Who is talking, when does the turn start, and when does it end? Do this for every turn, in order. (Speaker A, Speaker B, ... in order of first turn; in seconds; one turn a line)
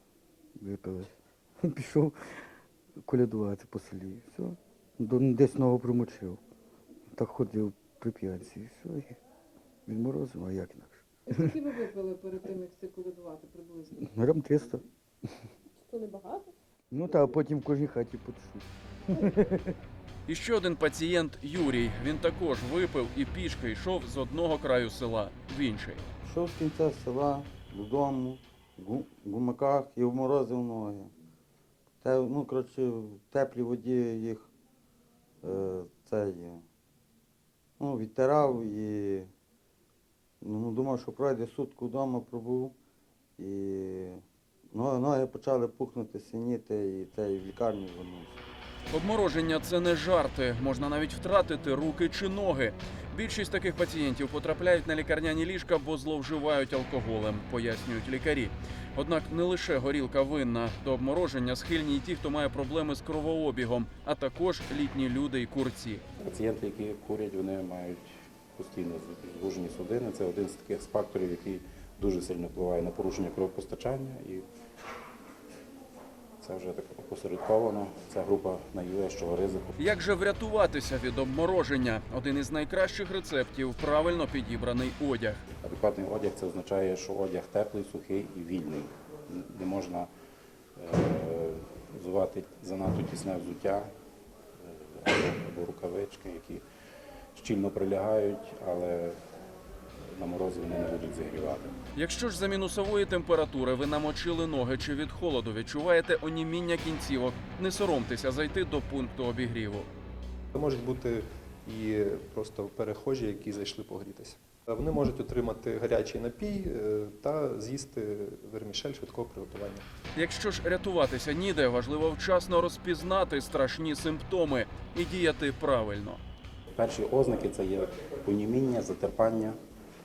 Speaker A: 0.6-1.1
Speaker A: 1.6-2.1
Speaker A: 3.0-6.4
Speaker A: 7.1-9.2
Speaker A: 9.9-11.5
Speaker B: 11.3-14.0
Speaker A: 13.9-14.8
Speaker B: 15.8-16.5
Speaker A: 16.9-19.7
Speaker C: 20.3-26.0
Speaker D: 26.2-31.1
Speaker D: 32.0-34.5
Speaker D: 35.4-36.6
Speaker D: 37.8-39.3
Speaker D: 40.4-42.7
Speaker D: 43.4-48.4
Speaker C: 48.9-66.0
Speaker E: 66.2-74.4
Speaker E: 76.4-79.8
Speaker C: 79.8-85.4
Speaker E: 85.6-90.1
Speaker E: 90.8-93.9
Speaker E: 94.6-96.6
Speaker E: 97.3-99.2
Speaker E: 100.1-101.7
Speaker C: 102.0-109.9
Speaker F: 110.5-119.8
Speaker C: 120.1-126.2
Speaker E: 126.7-129.6